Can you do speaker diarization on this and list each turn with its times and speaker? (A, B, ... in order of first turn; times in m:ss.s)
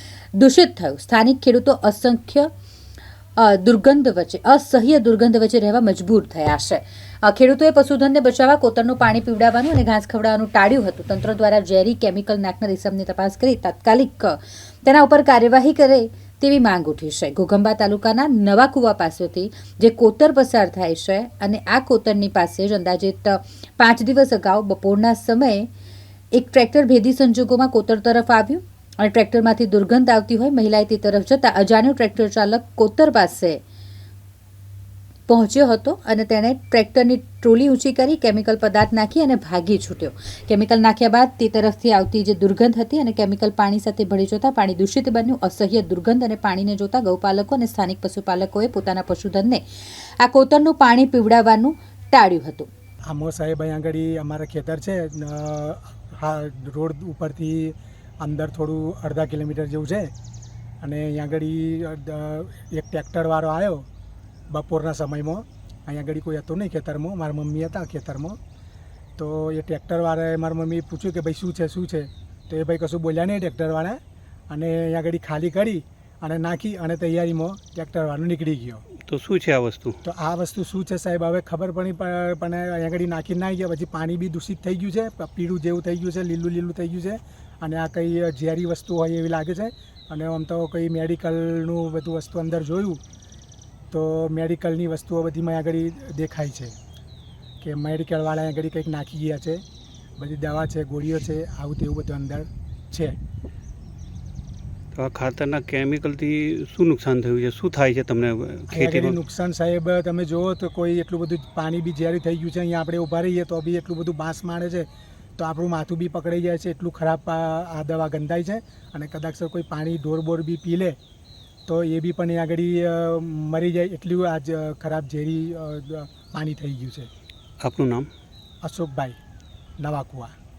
0:00.3-0:02.5 A
0:03.4-0:25.7 A
0:26.3-0:33.6 A
0:35.3-0:49.6 A
0:50.2-0:52.7 A
0:53.1-1:00.1 B
1:00.8-1:03.8 B
1:04.5-1:08.4 B
1:09.2-1:18.8 B
1:19.0-1:20.0 C
1:20.0-1:33.0 B
1:33.9-1:36.7 B
1:37.6-1:39.6 B
1:40.2-1:43.2 B
1:44.9-1:49.2 C
1:48.7-2:01.0 B
2:01.7-2:07.1 B
2:07.6-2:08.1 C
2:08.6-2:09.2 B
2:09.8-2:10.3 B